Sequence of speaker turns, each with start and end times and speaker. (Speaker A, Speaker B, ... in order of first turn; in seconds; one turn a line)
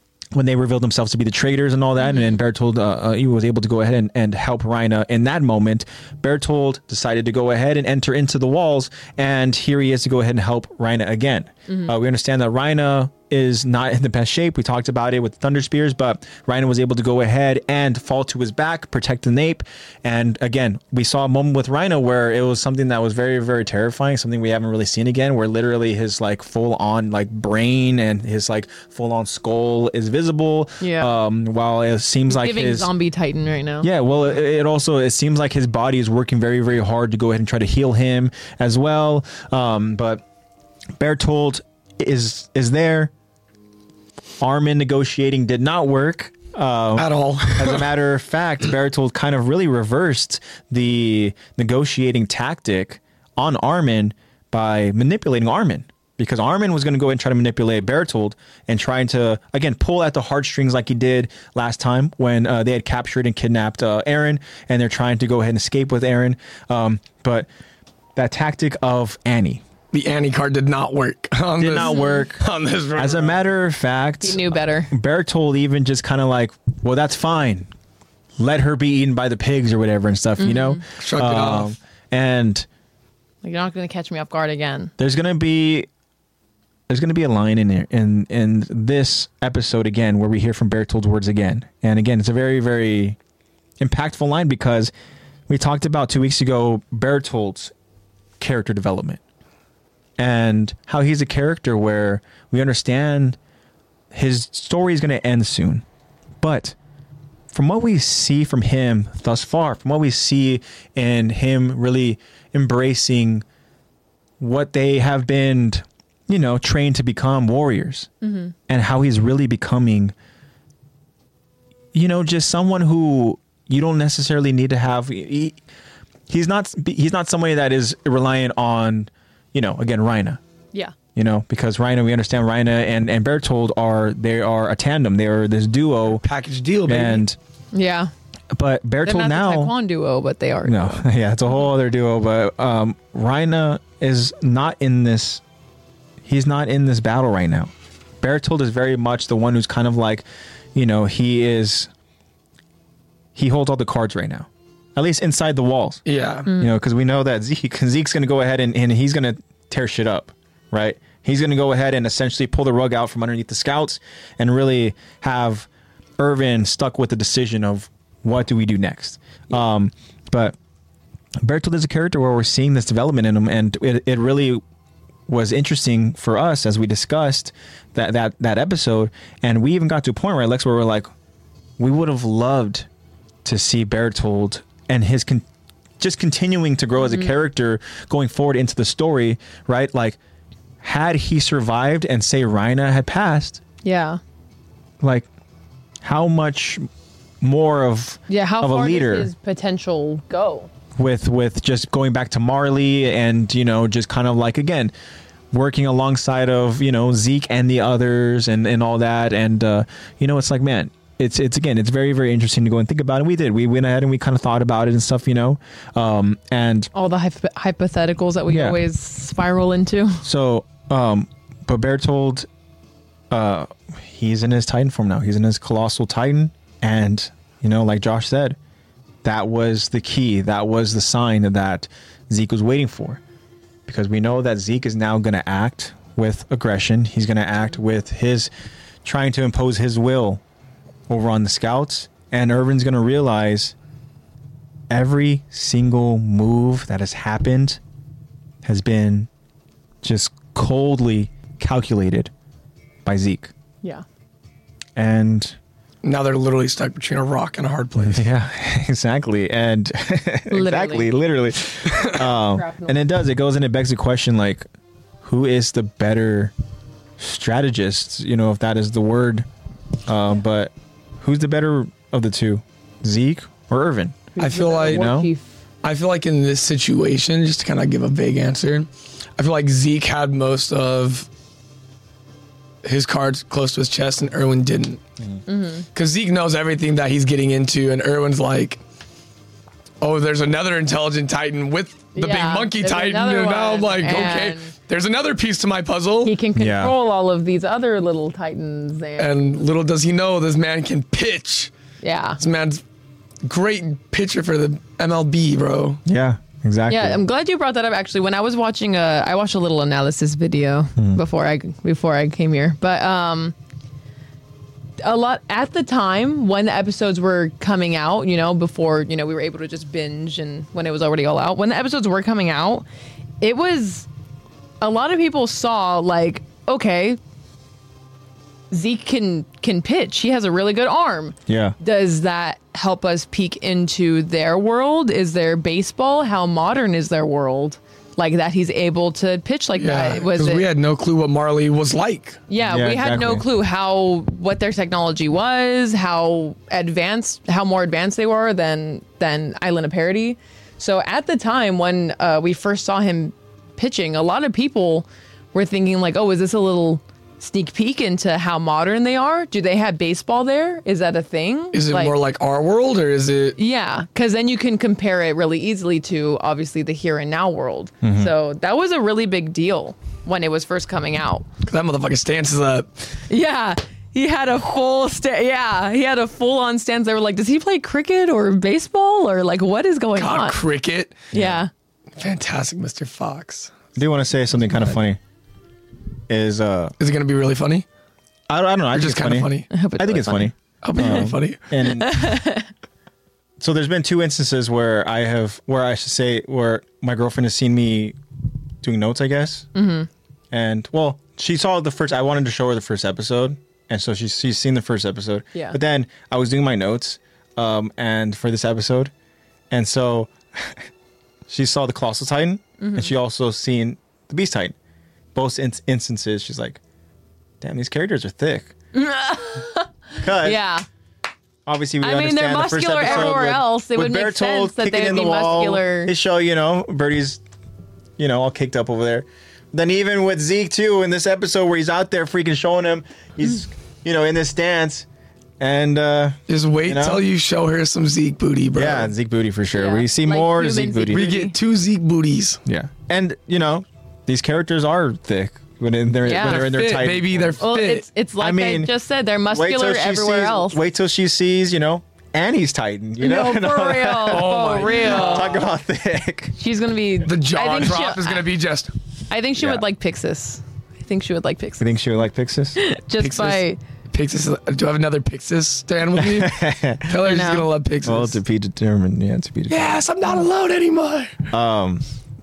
Speaker A: 0.3-32.9
Speaker B: 2.0-2.4
Speaker B: 11.7-11.9
Speaker B: 30.8-31.1
Speaker B: 32.3-33.9
Speaker A: 33.8-40.2
Speaker A: 41.0-43.1
Speaker A: 44.4-67.5
Speaker C: 47.0-47.9
Speaker A: 68.2-69.6
Speaker C: 69.9-73.4
Speaker A: 71.6-72.4
Speaker B: 71.8-72.3
Speaker A: 73.0-77.7
Speaker B: 74.2-74.9
Speaker A: 78.4-82.7
Speaker B: 80.4-80.8
Speaker C: 81.0-81.7
Speaker B: 83.4-84.9
Speaker A: 85.0-85.9
Speaker A: 86.9-93.2
Speaker A: 93.8-94.9
Speaker A: 95.5-97.7
Speaker A: 98.4-99.2
Speaker A: 100.2-103.4
Speaker A: 104.1-105.8
Speaker A: 106.4-106.8
Speaker A: 107.5-113.5
Speaker A: 114.4-118.1
Speaker B: 118.2-118.5
Speaker A: 118.7-120.1
Speaker A: 121.9-125.6
Speaker A: 126.3-130.4
Speaker A: 131.2-136.2
Speaker C: 136.2-137.3
Speaker A: 136.9-137.4
Speaker B: 137.7-138.1
Speaker A: 138.5-139.7
Speaker B: 139.0-141.1
Speaker A: 140.6-145.4
Speaker A: 146.2-151.9
Speaker A: 153.3-156.0
Speaker C: 156.1-156.5
Speaker B: 156.5-156.7
Speaker A: 156.6-165.7
Speaker A: 166.2-170.6
Speaker A: 171.4-174.6
Speaker A: 175.3-181.1
Speaker A: 181.8-182.9
Speaker A: 183.4-185.5
Speaker A: 186.0-190.2
Speaker B: 187.0-187.3
Speaker A: 190.8-193.6
Speaker B: 193.8-194.2
Speaker A: 195.0-195.3
Speaker A: 196.0-196.8
Speaker A: 197.4-199.3
Speaker B: 198.3-200.7
Speaker A: 201.0-204.9
Speaker A: 205.5-216.9
Speaker B: 216.9-220.2
Speaker A: 218.5-218.8
Speaker A: 220.2-222.5
Speaker A: 223.3-228.6
Speaker A: 229.2-233.2
Speaker A: 233.9-238.5
Speaker A: 239.0-240.4
Speaker A: 241.1-243.7
Speaker A: 244.9-247.8
Speaker A: 248.6-249.3
Speaker A: 250.0-252.3
Speaker A: 253.1-253.5
Speaker A: 255.0-255.6
Speaker C: 256.0-258.3
Speaker A: 258.0-264.6
Speaker B: 260.5-261.1
Speaker C: 261.9-262.2
Speaker B: 262.3-263.0
Speaker A: 265.2-266.5
Speaker A: 267.2-269.5
Speaker A: 270.1-274.3
Speaker B: 274.4-275.5
Speaker C: 274.4-275.1
Speaker A: 274.9-275.3
Speaker C: 275.8-281.3
Speaker C: 282.8-285.0
Speaker B: 285.5-285.9
Speaker C: 285.9-288.8
Speaker C: 290.0-296.4
Speaker B: 292.2-294.7
Speaker B: 296.2-299.3
Speaker A: 296.6-296.9
Speaker C: 299.2-301.7
Speaker B: 302.0-302.4
Speaker C: 302.4-302.8
Speaker C: 303.4-306.0
Speaker A: 306.1-307.2
Speaker B: 306.9-313.6
Speaker B: 315.0-322.9
Speaker B: 323.4-324.1
Speaker B: 324.8-327.2
Speaker B: 328.7-340.7
Speaker A: 331.5-331.8
Speaker C: 339.8-342.4
Speaker B: 342.5-362.1
Speaker A: 342.6-343.4
Speaker C: 361.7-363.6
Speaker B: 363.6-371.5
Speaker A: 368.0-368.3
Speaker C: 371.7-372.9
Speaker B: 373.3-380.6
Speaker C: 380.2-381.3
Speaker A: 381.3-381.6
Speaker B: 381.3-381.7
Speaker C: 382.2-383.7
Speaker A: 384.0-385.2
Speaker A: 386.3-386.9
Speaker C: 387.0-387.9
Speaker A: 388.5-392.3
Speaker C: 388.9-389.7
Speaker B: 389.7-391.3
Speaker C: 390.8-391.6
Speaker B: 391.8-392.7
Speaker A: 393.6-398.2
Speaker A: 398.8-399.7
Speaker B: 399.8-400.1
Speaker A: 400.5-409.1
Speaker A: 409.7-410.9
Speaker A: 411.5-414.8
Speaker B: 412.8-413.1
Speaker A: 415.4-416.8
Speaker A: 417.6-418.7
Speaker B: 418.9-420.9
Speaker A: 420.2-420.6
Speaker A: 421.7-427.4
Speaker B: 422.0-426.1
Speaker A: 428.2-435.1
Speaker A: 435.6-437.2
Speaker C: 436.5-439.1
Speaker A: 438.8-441.3
Speaker B: 439.7-441.6
Speaker C: 441.1-442.6
Speaker A: 442.7-447.6
Speaker B: 446.2-446.7
Speaker C: 446.3-448.1
Speaker B: 447.6-450.8
Speaker A: 448.4-448.9
Speaker A: 449.5-456.6
Speaker B: 453.2-455.6
Speaker C: 454.3-455.6
Speaker B: 456.6-458.4
Speaker C: 457.2-458.9
Speaker B: 459.3-461.9
Speaker A: 459.6-459.9
Speaker A: 461.8-462.8
Speaker B: 462.8-463.8
Speaker C: 463.2-468.4
Speaker A: 466.2-467.2
Speaker B: 467.2-467.7
Speaker A: 468.0-470.0
Speaker C: 469.7-471.5
Speaker A: 471.5-472.0